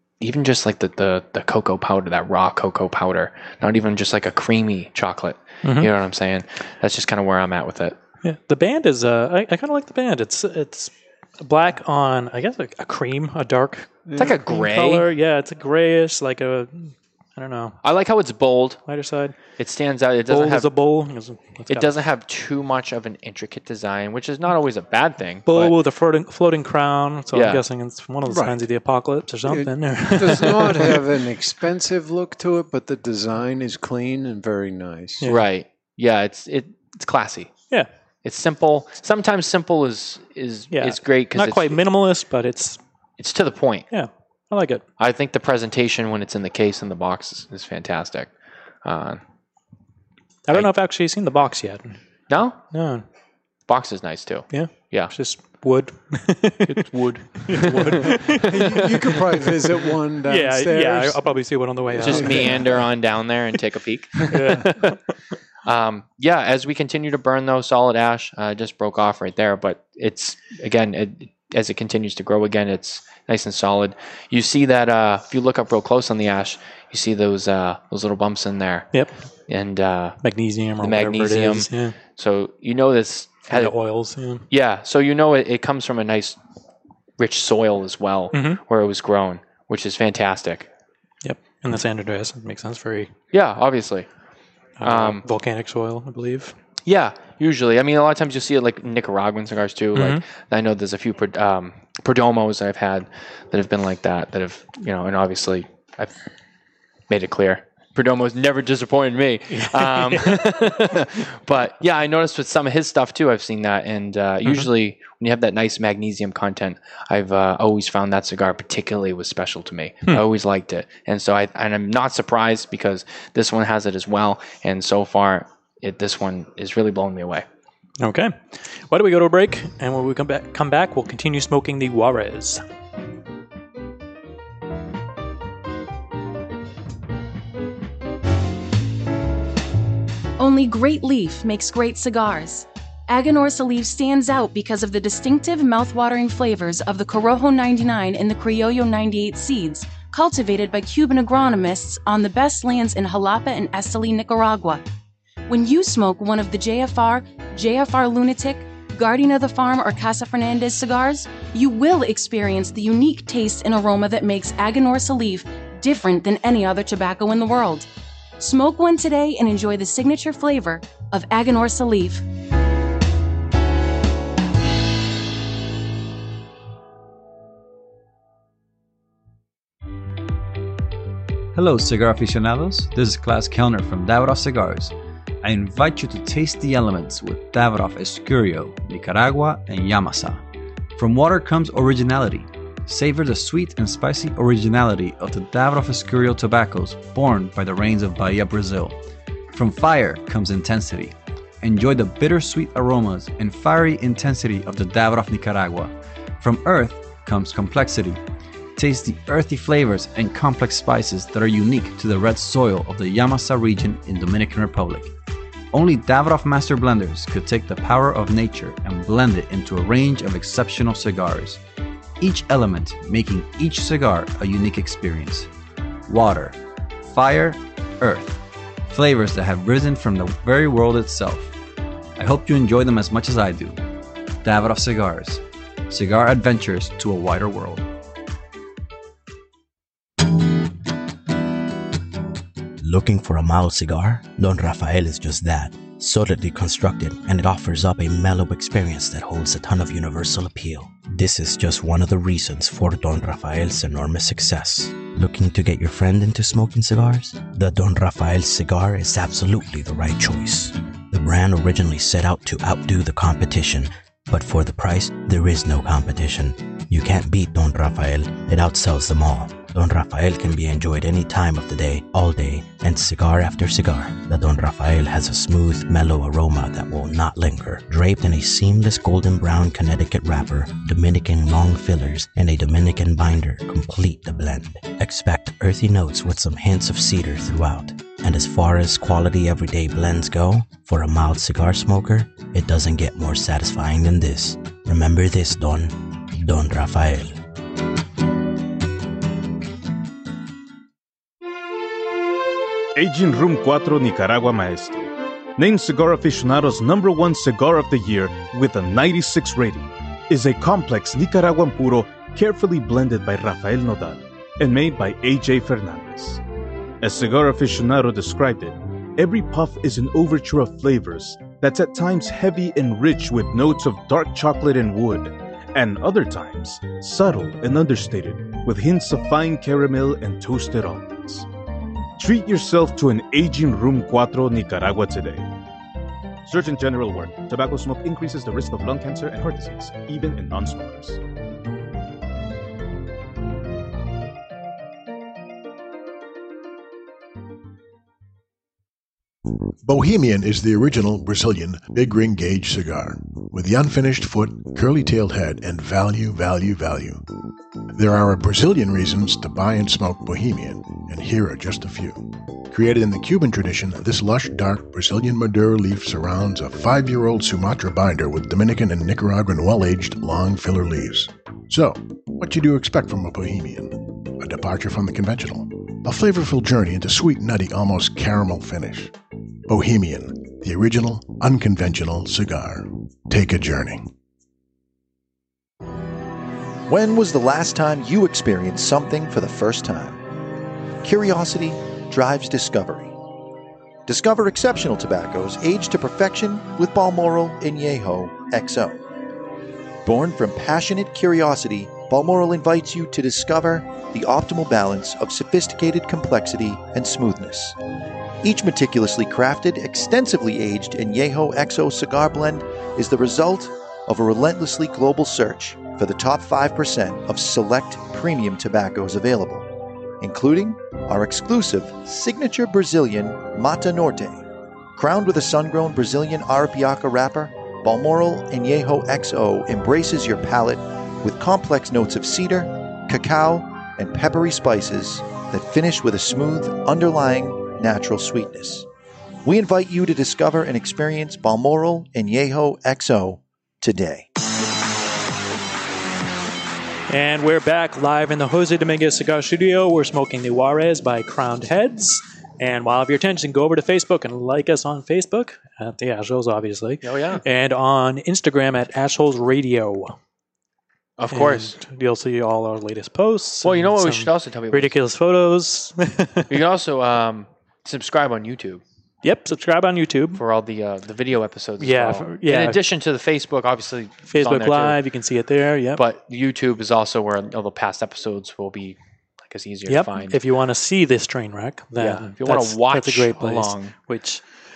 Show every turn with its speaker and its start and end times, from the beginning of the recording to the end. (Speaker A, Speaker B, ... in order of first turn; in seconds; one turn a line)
Speaker A: 0.2-8.0
Speaker B: 5.6-5.9
Speaker B: 8.2-17.8
Speaker C: 14.1-14.4
Speaker A: 14.2-15.1
Speaker A: 17.8-18.8
Speaker B: 18.9-19.4
Speaker A: 19.6-20.7
Speaker B: 20.3-21.9
Speaker A: 21.7-25.8
Speaker B: 25.5-31.0
Speaker A: 27.3-27.6
Speaker C: 28.3-28.6
Speaker C: 29.5-35.2
Speaker A: 35.2-37.5
Speaker A: 38.2-41.8
Speaker B: 40.7-42.8
Speaker A: 43.2-43.9
Speaker B: 43.9-44.8
Speaker A: 45.0-48.3
Speaker A: 48.8-49.2
Speaker B: 50.5-52.0
Speaker A: 52.3-52.6
Speaker B: 52.7-53.0
Speaker A: 53.7-55.1
Speaker B: 54.5-59.5
Speaker A: 56.7-58.8
Speaker C: 57.7-61.2
Speaker B: 60.3-62.6
Speaker C: 61.9-62.9
Speaker A: 62.0-64.9
Speaker B: 64.3-65.0
Speaker A: 65.7-78.9
Speaker A: 79.5-80.2
Speaker B: 80.2-82.0
Speaker A: 80.8-83.7
Speaker B: 83.5-84.4
Speaker A: 84.5-86.4
Speaker A: 87.2-90.7
Speaker B: 88.3-88.6
Speaker B: 91.2-93.1
Speaker A: 93.3-94.1
Speaker B: 94.8-96.5
Speaker A: 94.8-95.2
Speaker A: 96.9-106.1
Speaker B: 100.0-100.2
Speaker A: 107.1-127.5
Speaker B: 109.5-111.0
Speaker B: 128.0-132.6
Speaker D: 140.4-154.8
Speaker D: 155.5-167.9
Speaker D: 168.4-172.2
Speaker E: 181.5-190.4
Speaker E: 191.0-199.0
Speaker E: 199.5-208.2
Speaker E: 208.8-215.1
Speaker E: 215.7-221.6
Speaker E: 222.2-225.5
Speaker E: 226.1-226.6
Speaker E: 227.1-231.5
Speaker E: 232.2-233.8
Speaker E: 234.4-237.8
Speaker F: 242.8-297.4
Speaker G: 302.9-305.1
Speaker G: 305.6-316.4
Speaker G: 317.0-331.5
Speaker G: 332.2-335.5
Speaker G: 336.4-341.2
Speaker H: 349.8-357.2
Speaker H: 357.9-379.1
Speaker H: 379.7-384.1
Speaker I: 386.9-390.2
Speaker I: 391.0-393.1
Speaker I: 394.1-399.0
Speaker I: 400.0-407.8
Speaker I: 408.4-419.7
Speaker I: 420.2-424.4
Speaker I: 425.0-438.9
Speaker I: 439.4-444.3
Speaker B: 447.1-460.2
Speaker A: 457.0-457.4
Speaker A: 461.2-461.8
Speaker B: 461.3-466.5
Speaker A: 463.6-464.9
Speaker A: 466.5-468.8
Speaker B: 469.2-470.4
Speaker A: 470.4-475.0
Speaker B: 471.8-472.8
Speaker B: 474.3-476.0
Speaker A: 476.0-480.4
Speaker B: 479.9-484.4
Speaker A: 482.0-483.9